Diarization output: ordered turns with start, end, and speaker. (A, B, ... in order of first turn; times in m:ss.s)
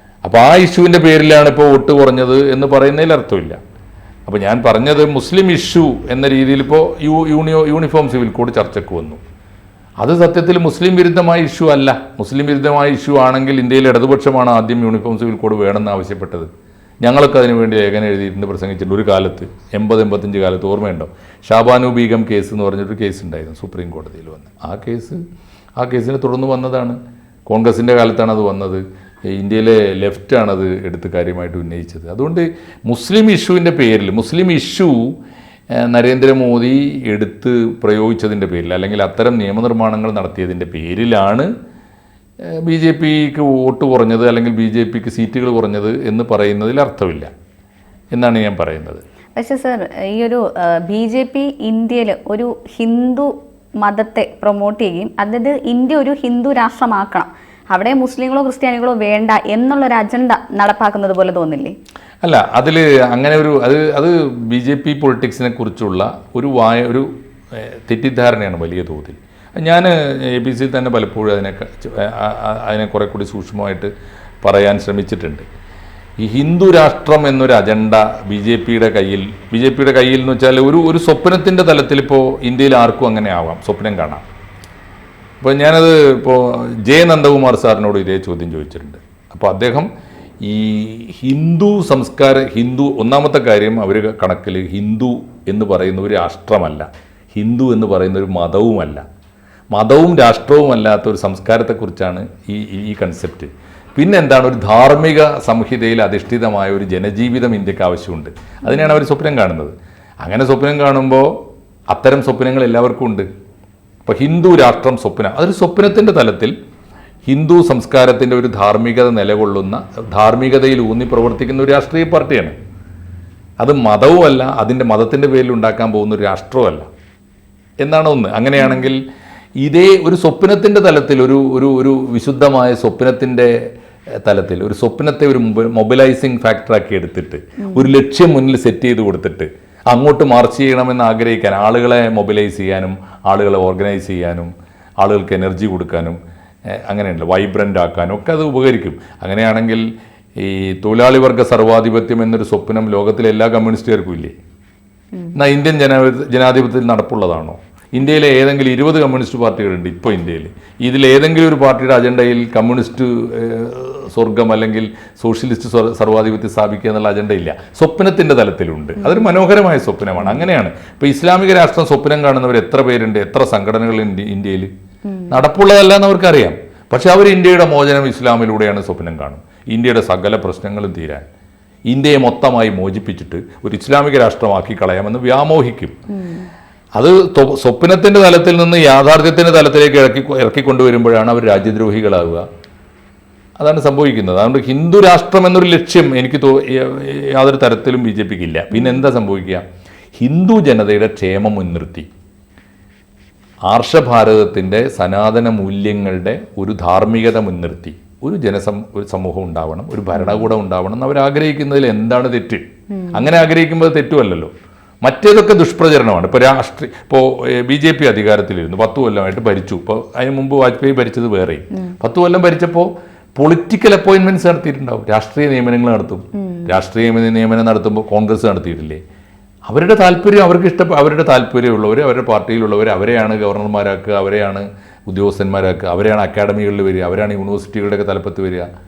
0:00.2-0:03.6 A
0:04.3-0:09.2 A
0:10.0-0:16.5 A
0:17.0-0:25.2 A
0:25.8-0:35.2 A
0:35.7-0:41.5 A
0:42.6-0:47.3 A
0:48.1-0:49.0 A
0:49.4-0:53.3 B
0:53.8-1:01.7 B
1:02.2-1:13.9 A
1:14.4-1:15.4 A
1:16.2-1:24.2 A
1:25.4-1:29.9 A
1:30.4-1:39.0 A
1:39.7-1:51.3 A
1:48.6-1:49.0 B
1:51.9-1:53.3 A
1:54.1-1:56.5 A
1:57.3-2:02.5 A
2:03.6-2:06.9 A
2:07.8-2:09.0 A
2:08.6-2:08.9 B
2:09.6-2:13.6 A
2:14.2-2:26.2 A
2:17.6-2:17.9 B
2:26.8-2:29.8 A
2:30.4-2:34.4 A
2:35.4-2:54.7 A
2:49.0-2:49.3 B
2:50.2-2:50.5 B
2:55.1-2:55.4 B
2:55.3-3:01.2 A
3:01.9-3:06.0 A
3:06.1-3:06.5 B
3:07.0-3:12.4 A
3:13.6-3:19.6 A
3:18.7-3:19.0 B
3:20.2-3:22.1 A
3:23.7-3:34.5 A
3:30.2-3:30.5 B
3:32.9-3:33.3 B
3:35.0-3:49.0 A
3:46.4-3:46.7 B
3:49.7-3:58.7 A